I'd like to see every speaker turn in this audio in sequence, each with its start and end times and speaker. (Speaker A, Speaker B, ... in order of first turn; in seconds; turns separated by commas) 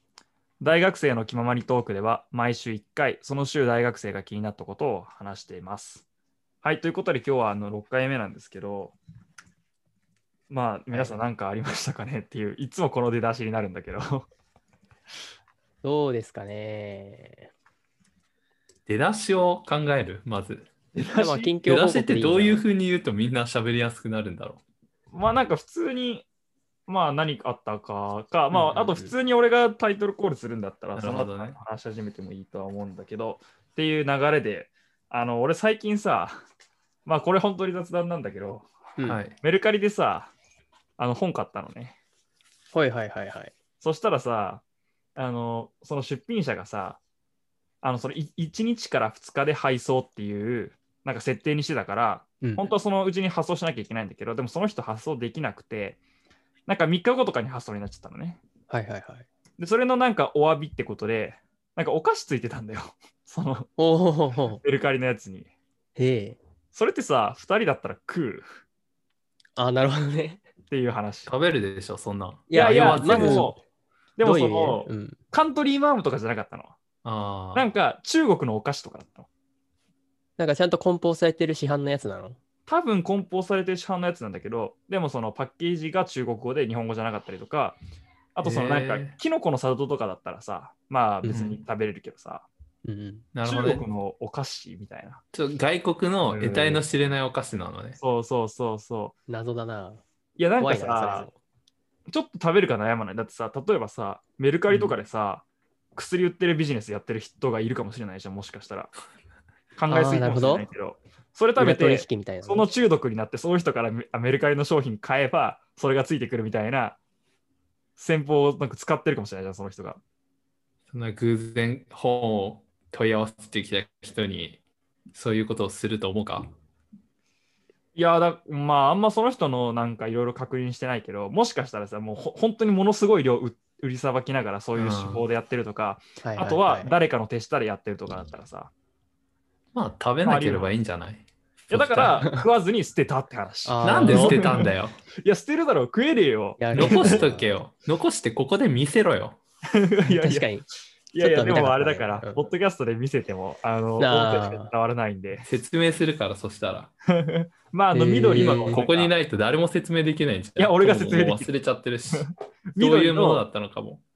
Speaker A: 0.6-6.0, Speaker A: 6.6-8.9, Speaker A: 10.5-14.3, Speaker B: 10.9-11.2, Speaker B: 15.8-17.5, Speaker C: 18.9-20.7, Speaker A: 20.9-21.5, Speaker B: 21.2-22.6, Speaker C: 21.6-24.6, Speaker A: 25.1-26.2, Speaker A: 26.9-36.4, Speaker B: 28.5-29.1, Speaker C: 31.0-31.6, Speaker A: 37.0-38.7, Speaker C: 39.0-39.4, Speaker A: 39.4-40.3, Speaker A: 41.0-41.9, Speaker B: 42.7-43.5, Speaker A: 43.8-44.6, Speaker A: 45.1-47.0, Speaker A: 47.8-56.0, Speaker B: 52.4-52.7, Speaker A: 56.6-58.4, Speaker B: 58.7-59.2, Speaker A: 59.6-63.7, Speaker B: 63.8-64.6, Speaker A: 64.6-65.5, Speaker B: 66.0-66.4, Speaker A: 66.7-68.5, Speaker B: 69.5-70.4, Speaker A: 70.7-71.3, Speaker C: 71.3-73.5, Speaker B: 72.5-73.5, Speaker A: 72.5-73.6, Speaker A: 74.2-76.7, Speaker B: 74.2-75.2, Speaker C: 77.0-77.7, Speaker A: 77.5-79.3, Speaker B: 80.4-82.4, Speaker A: 82.7-87.8, Speaker A: 88.3-92.5, Speaker C: 88.4-89.2, Speaker B: 91.2-91.5, Speaker C: 91.3-91.6, Speaker B: 92.8-93.2, Speaker C: 93.3-93.9, Speaker A: 93.4-95.2, Speaker C: 95.3-98.0, Speaker A: 96.3-96.8, Speaker A: 98.0-99.1, Speaker B: 99.3-100.0, Speaker A: 100.4-101.3, Speaker B: 100.6-101.3, Speaker A: 102.1-105.4, Speaker A: 105.9-108.9, Speaker A: 109.8-117.0, Speaker B: 109.9-110.7, Speaker B: 111.6-112.7, Speaker A: 118.0-120.0, Speaker C: 120.9-124.6, Speaker C: 125.1-126.5, Speaker A: 127.9-138.7, Speaker C: 134.7-135.2, Speaker B: 136.2-136.9, Speaker C: 139.7-142.3, Speaker A: 140.2-140.7, Speaker A: 141.7-147.2, Speaker B: 143.7-144.5, Speaker C: 143.8-144.9, Speaker B: 146.6-147.5, Speaker C: 146.7-149.4, Speaker A: 149.7-150.5, Speaker B: 150.1-150.6, Speaker A: 151.1-155.4, Speaker B: 151.2-152.5, Speaker B: 154.0-154.7, Speaker C: 155.4-156.9, Speaker A: 157.1-159.1, Speaker B: 157.9-158.8, Speaker C: 158.3-164.0, Speaker A: 160.6-161.5, Speaker A: 162.1-163.4